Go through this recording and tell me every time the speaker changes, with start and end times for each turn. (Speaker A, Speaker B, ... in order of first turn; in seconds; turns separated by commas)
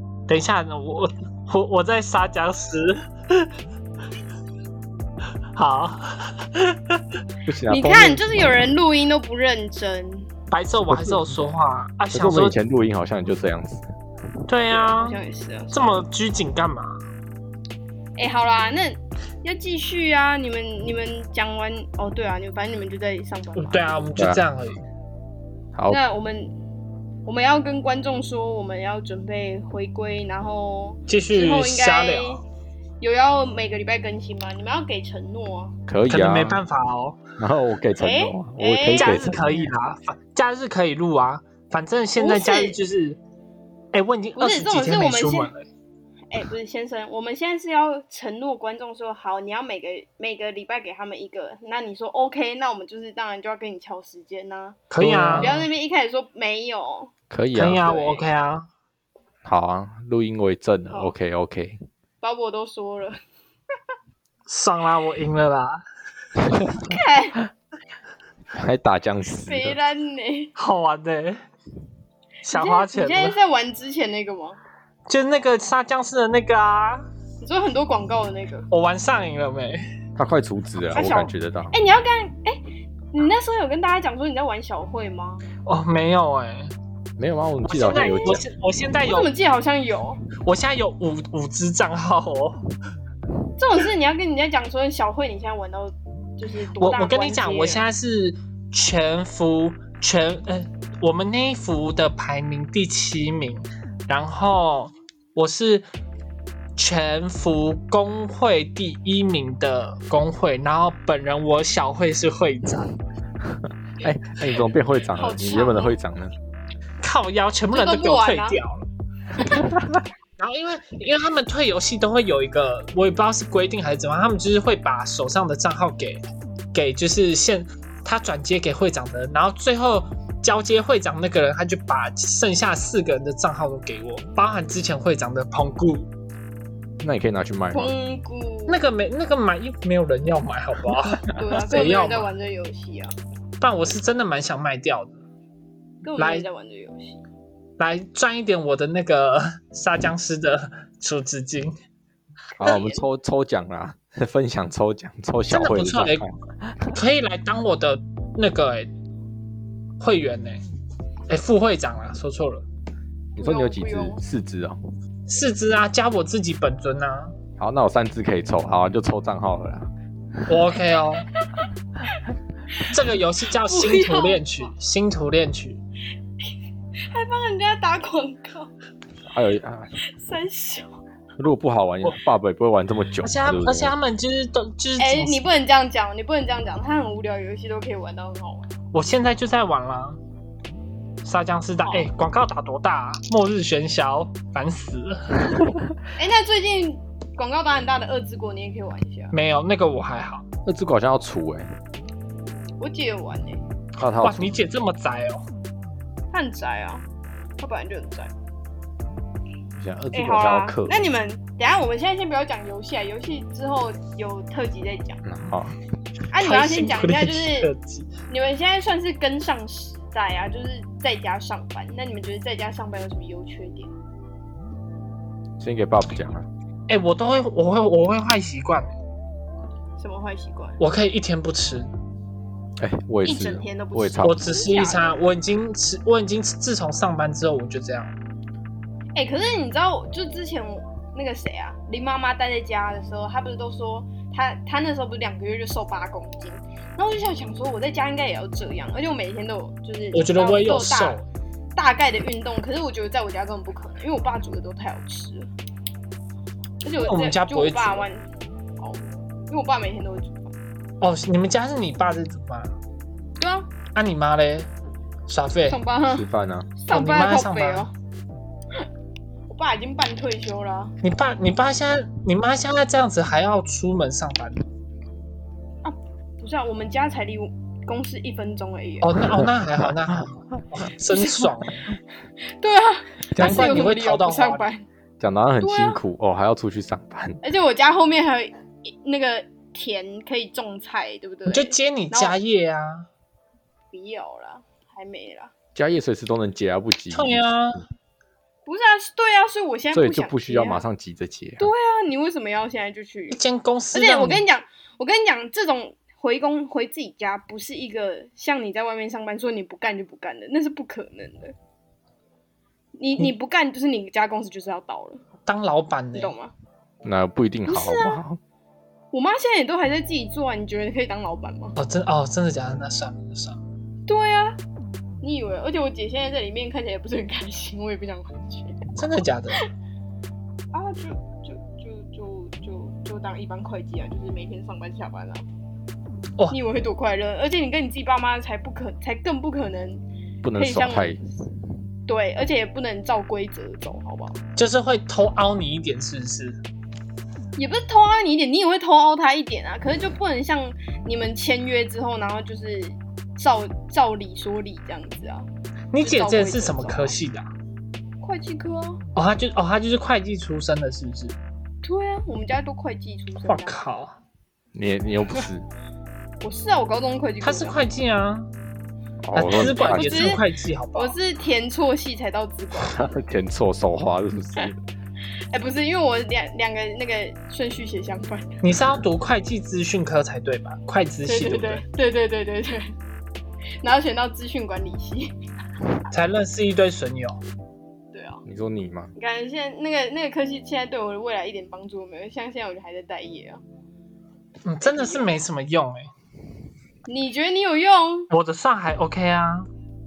Speaker A: 0.3-3.5, Speaker A: 5.5-7.0, Speaker B: 7.5-8.5, Speaker C: 7.7-10.3, Speaker A: 10.5-12.6, Speaker B: 10.9-11.4, Speaker B: 12.1-13.9, Speaker A: 14.5-15.2, Speaker C: 14.7-16.0, Speaker A: 15.7-17.0, Speaker C: 18.2-24.0, Speaker A: 23.6-24.8, Speaker B: 24.2-24.4, Speaker B: 25.7-26.0, Speaker C: 25.9-26.5, Speaker C: 27.3-32.4, Speaker A: 31.1-32.4, Speaker C: 33.0-35.8, Speaker B: 35.9-36.6, Speaker A: 36.1-37.2, Speaker B: 37.4-39.7, Speaker C: 38.0-39.2, Speaker A: 38.9-43.2, Speaker C: 42.2-42.8, Speaker A: 43.9-45.6, Speaker C: 44.4-45.5, Speaker C: 46.3-57.1, Speaker A: 54.9-55.6, Speaker B: 55.0-55.5, Speaker B: 57.3-58.0, Speaker A: 57.5-58.7, Speaker C: 57.8-58.3, Speaker B: 59.5-61.8, Speaker C: 62.2-63.2, Speaker A: 64.5-65.8, Speaker C: 66.8-67.4, Speaker B: 68.5-69.8, Speaker C: 69.5-70.5, Speaker A: 70.6-71.4, Speaker A: 72.5-73.4, Speaker C: 72.5-74.6, Speaker A: 75.1-77.0, Speaker C: 77.4-78.7, Speaker A: 78.7-79.8, Speaker B: 80.2-81.8, Speaker C: 80.9-85.4, Speaker A: 85.7-86.7, Speaker B: 87.2-88.4, Speaker A: 87.7-89.3, Speaker C: 87.9-88.4, Speaker C: 89.0-90.2, Speaker A: 90.4-92.6, Speaker C: 93.6-97.8, Speaker A: 96.8-105.8, Speaker A: 106.8-112.9, Speaker B: 113.5-116.3, Speaker C: 115.1-116.0, Speaker A: 117.0-118.9, Speaker C: 117.7-118.6, Speaker A: 120.4-136.1, Speaker B: 137.0-137.9, Speaker C: 137.7-138.8, Speaker A: 138.7-142.3, Speaker C: 141.3-143.1, Speaker A: 143.6-145.2, Speaker C: 146.0-147.2, Speaker A: 146.2-146.5, Speaker A: 147.8-151.7, Speaker B: 152.6-156.9, Speaker C: 152.6-153.0, Speaker A: 155.5-156.2, Speaker A: 156.9-158.9, Speaker A: 160.0-160.6, Speaker A: 161.3-162.7, Speaker C: 163.4-164.2, Speaker B: 163.4-164.8, Speaker A: 165.3-167.3, Speaker B: 167.6-169.9, Speaker A: 170.5-171.3, Speaker A: 172.8-175.8, Speaker C: 173.7-174.7, Speaker C: 177.1-178.7, Speaker B: 179.3-179.9, Speaker C: 180.2-181.0, Speaker B: 181.4-183.9, Speaker A: 183.2-185.4, Speaker C: 185.0-188.7, Speaker A: 188.9-190.2, Speaker A: 191.2-195.7, Speaker C: 191.8-192.1, Speaker C: 196.2-199.3, Speaker A: 199.3-200.4, Speaker B: 200.7-201.7, Speaker C: 202.8-203.6, Speaker B: 204.0-204.6, Speaker A: 204.2-205.4, Speaker C: 206.3-207.1, Speaker C: 207.6-208.3, Speaker B: 209.8-211.1, Speaker C: 210.1-215.2, Speaker B: 215.2-215.8, Speaker C: 216.3-217.7, Speaker A: 216.4-218.1, Speaker C: 218.3-223.9, Speaker B: 225.6-226.5, Speaker A: 226.9-228.9, Speaker C: 230.0-230.8, Speaker A: 230.8-231.9, Speaker B: 232.8-234.4, Speaker C: 233.2-235.2, Speaker A: 234.2-238.1, Speaker C: 239.2-251.2, Speaker A: 250.1-251.2, Speaker C: 251.8-255.5, Speaker C: 256.8-258.3, Speaker A: 257.0-258.1, Speaker C: 258.8-260.5, Speaker A: 261.0-262.7, Speaker C: 263.4-263.7, Speaker A: 263.9-264.7, Speaker A: 265.3-265.8, Speaker C: 265.7-266.3, Speaker B: 266.1-266.7, Speaker C: 266.8-267.9, Speaker A: 266.9-267.9, Speaker C: 269.5-270.9, Speaker A: 271.0-274.6, Speaker C: 275.8-279.2, Speaker A: 279.0-281.9, Speaker C: 282.6-284.9, Speaker B: 283.4-283.9, Speaker A: 283.4-284.6, Speaker B: 285.2-287.4, Speaker C: 285.6-286.0, Speaker C: 287.4-292.4, Speaker A: 291.5-293.1, Speaker C: 293.9-295.5, Speaker B: 295.8-297.5, Speaker A: 297.1-297.8, Speaker C: 298.7-300.9, Speaker B: 299.9-301.7, Speaker C: 301.6-303.4, Speaker A: 303.3-304.4, Speaker C: 303.9-311.5, Speaker C: 313.0-315.2, Speaker A: 315.5-316.3, Speaker C: 316.1-316.5, Speaker B: 317.0-318.4, Speaker C: 317.7-318.2, Speaker C: 319.1-321.8, Speaker A: 321.8-323.6, Speaker C: 324.1-324.6, Speaker C: 325.2-328.9, Speaker A: 329.0-329.6, Speaker C: 330.7-335.4, Speaker C: 336.5-340.0, Speaker B: 340.4-341.2, Speaker C: 340.6-341.3, Speaker C: 342.1-344.4, Speaker A: 344.6-346.6, Speaker C: 347.6-355.5, Speaker A: 355.9-357.5, Speaker C: 356.0-357.2, Speaker C: 358.2-359.0, Speaker A: 359.2-361.4, Speaker C: 361.8-363.8, Speaker A: 363.4-364.1, Speaker B: 364.7-365.7, Speaker C: 366.4-367.8, Speaker A: 367.4-368.5, Speaker B: 369.2-370.3, Speaker A: 369.3-371.2, Speaker C: 369.6-370.4, Speaker C: 370.9-373.2, Speaker B: 372.8-374.8, Speaker C: 375.5-378.6, Speaker A: 378.6-381.8, Speaker C: 381.3-382.9, Speaker C: 383.8-385.3, Speaker A: 386.1-387.4, Speaker C: 388.1-388.4, Speaker B: 388.4-389.1, Speaker C: 389.2-393.6, Speaker A: 394.6-396.1, Speaker C: 394.8-395.3, Speaker C: 397.1-398.3, Speaker A: 398.3-399.7